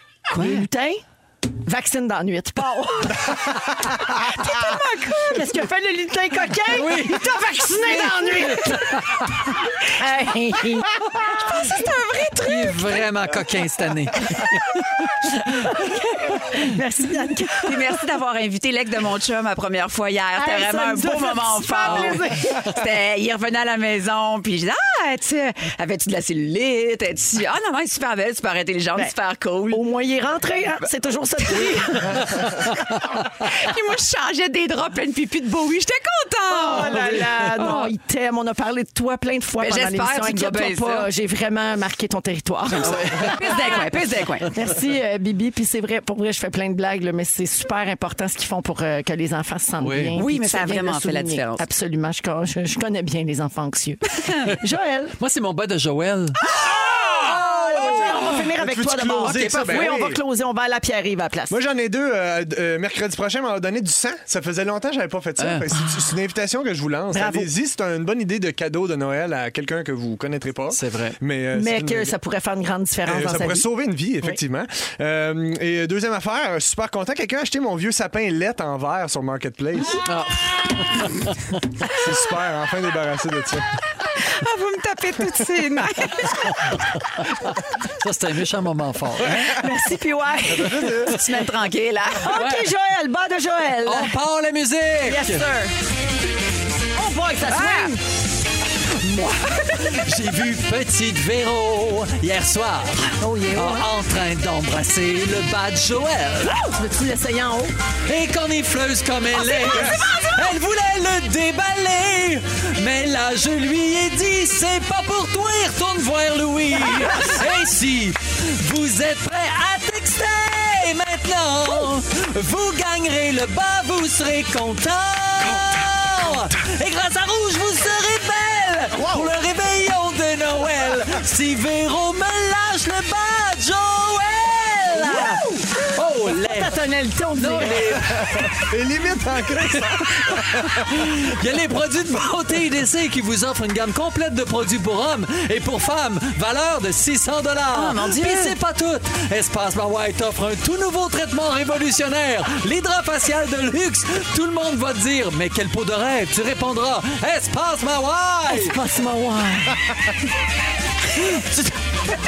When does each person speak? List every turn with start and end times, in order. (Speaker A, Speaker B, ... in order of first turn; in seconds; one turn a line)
Speaker A: 0.3-0.7
Speaker B: 0.3-1.0
Speaker B: 1.6-9.3
Speaker A: 4.4-5.4
Speaker C: 6.7-9.3
Speaker B: 9.9-11.3
Speaker A: 11.1-13.0
Speaker C: 12.4-14.6
Speaker B: 15.3-17.8
Speaker A: 17.6-29.9
Speaker B: 20.4-22.6
Speaker C: 21.9-22.7
Speaker B: 29.7-32.8
Speaker A: 31.5-32.7
Speaker A: 33.2-37.9
Speaker B: 36.5-43.8
Speaker C: 36.9-37.8
Speaker A: 39.6-41.1
Speaker C: 42.8-43.6
Speaker A: 43.2-44.5
Speaker B: 44.5-55.2
Speaker C: 49.8-50.2
Speaker A: 50.1-51.7
Speaker C: 55.2-56.4
Speaker D: 56.5-60.2
Speaker B: 56.5-61.5
Speaker A: 59.2-59.8
Speaker D: 61.5-72.2
Speaker C: 65.4-66.1
Speaker B: 67.1-67.5
Speaker C: 70.7-71.2
Speaker B: 71.5-73.7
Speaker D: 73.1-80.1
Speaker C: 80.0-81.6
Speaker D: 81.8-83.7
Speaker A: 84.2-86.6
Speaker C: 86.3-89.7
Speaker B: 89.5-91.0
Speaker D: 90.5-91.2
Speaker A: 91.1-92.4
Speaker B: 92.2-94.2
Speaker C: 92.3-92.7
Speaker C: 93.9-95.5
Speaker B: 95.0-95.7
Speaker B: 97.0-98.0
Speaker A: 97.5-98.0
Speaker C: 99.0-106.7
Speaker B: 103.2-103.9
Speaker B: 106.6-107.7
Speaker C: 108.1-136.8
Speaker D: 109.6-110.1
Speaker D: 129.0-129.3
Speaker B: 134.9-135.7
Speaker B: 136.3-138.0
Speaker C: 137.3-138.7
Speaker D: 138.3-141.2
Speaker C: 139.5-158.8
Speaker A: 147.7-148.6
Speaker B: 158.5-160.0
Speaker C: 161.1-161.7